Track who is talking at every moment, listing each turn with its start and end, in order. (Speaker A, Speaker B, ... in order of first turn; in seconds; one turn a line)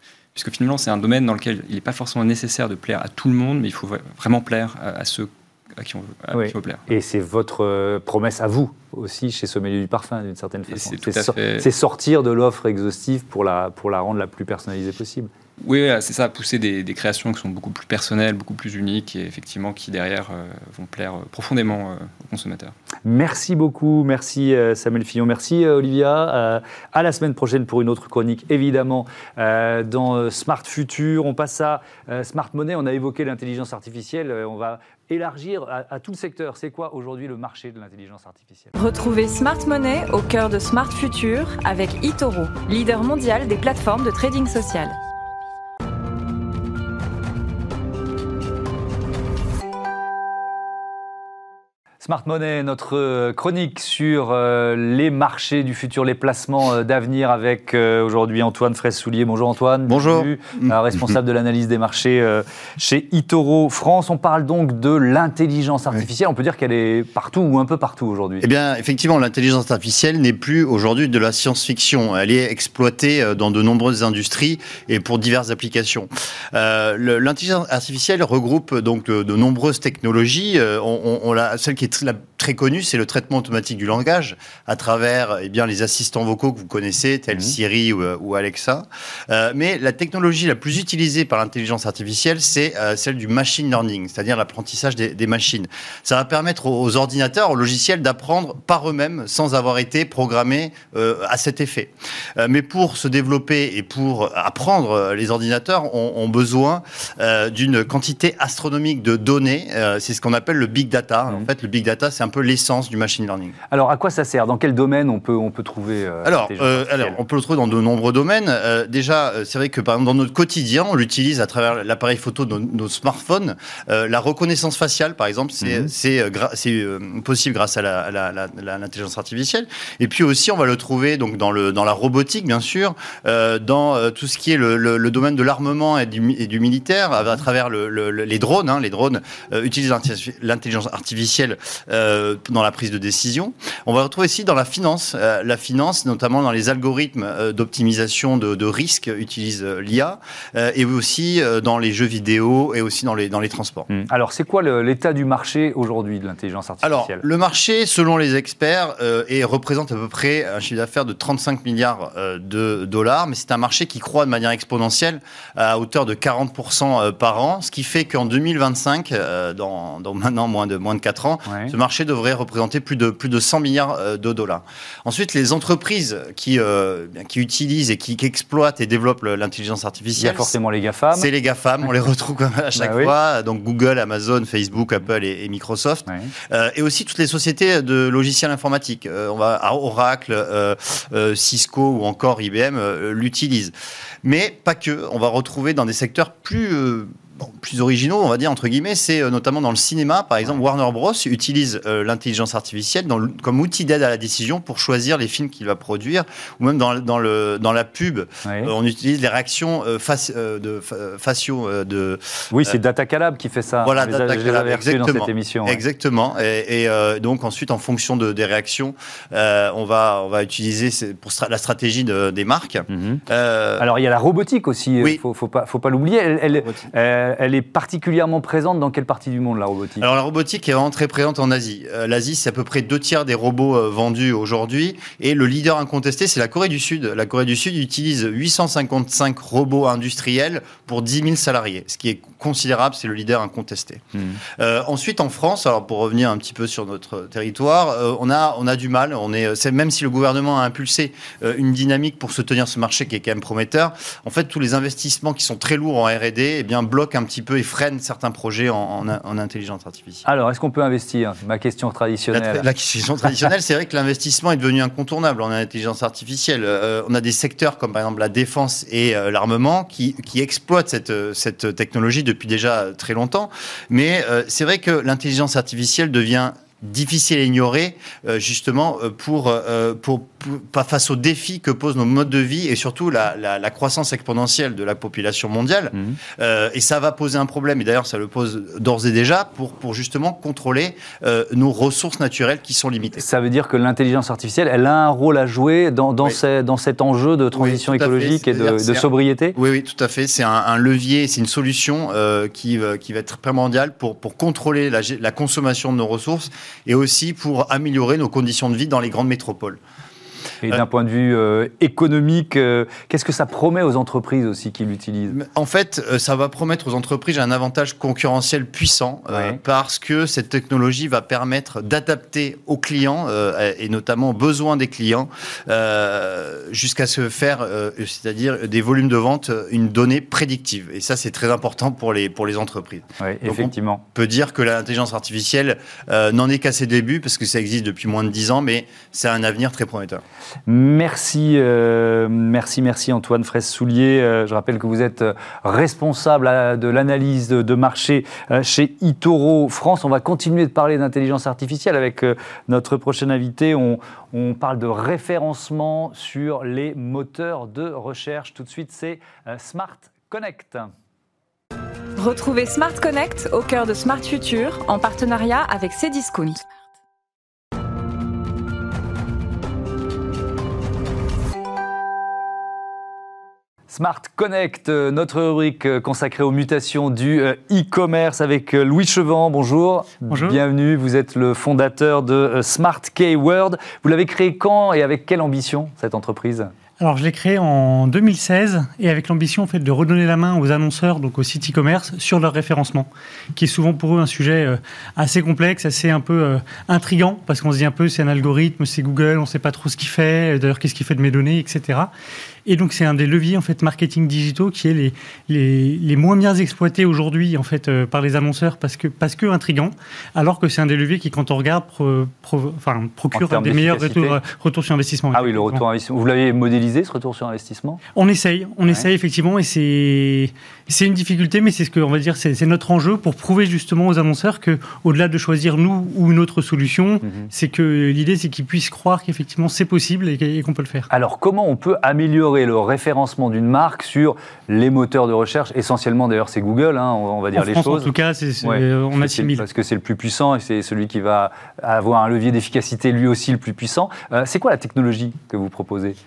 Speaker A: 0.3-6.8
Speaker B: 6.3-15.3
Speaker A: 10.7-11.7
Speaker A: 15.6-22.7
Speaker B: 23.0-38.8
Speaker C: 38.8-45.0
Speaker B: 52.0-68.5
Speaker D: 59.9-60.8
Speaker D: 68.4-113.6
Speaker B: 113.7-117.2
Speaker D: 116.2-153.9
Speaker B: 125.6-125.9
Speaker B: 153.9-157.2
Speaker D: 156.8-180.5
Speaker B: 171.5-171.8
Speaker B: 180.2-181.3
Speaker D: 181.1-193.7
Speaker B: 182.8-183.1
Speaker D: 194.2-212.8
Speaker B: 208.4-208.7
Speaker B: 212.5-215.8
Speaker D: 213.8-223.8
Speaker B: 222.9-223.2
Speaker B: 223.8-230.1
Speaker D: 230.0-244.0
Speaker D: 244.6-260.2
Speaker B: 260.2-262.7
Speaker D: 262.3-293.2
Speaker B: 293.2-299.6
Speaker D: 297.5-309.8
Speaker B: 310.6-315.4
Speaker D: 315.3-340.2
Speaker B: 319.3-319.6
Speaker B: 333.2-334.0
Speaker B: 340.7-360.9
Speaker C: 362.2-366.6
Speaker B: 373.9-386.7
Speaker E: 380.3-380.6
Speaker E: 387.0-402.1
Speaker E: 402.7-415.8
Speaker B: 413.3-414.4
Speaker B: 415.3-418.0
Speaker E: 418.1-431.1
Speaker B: 427.2-427.5
Speaker B: 431.1-446.2
Speaker E: 437.6-439.6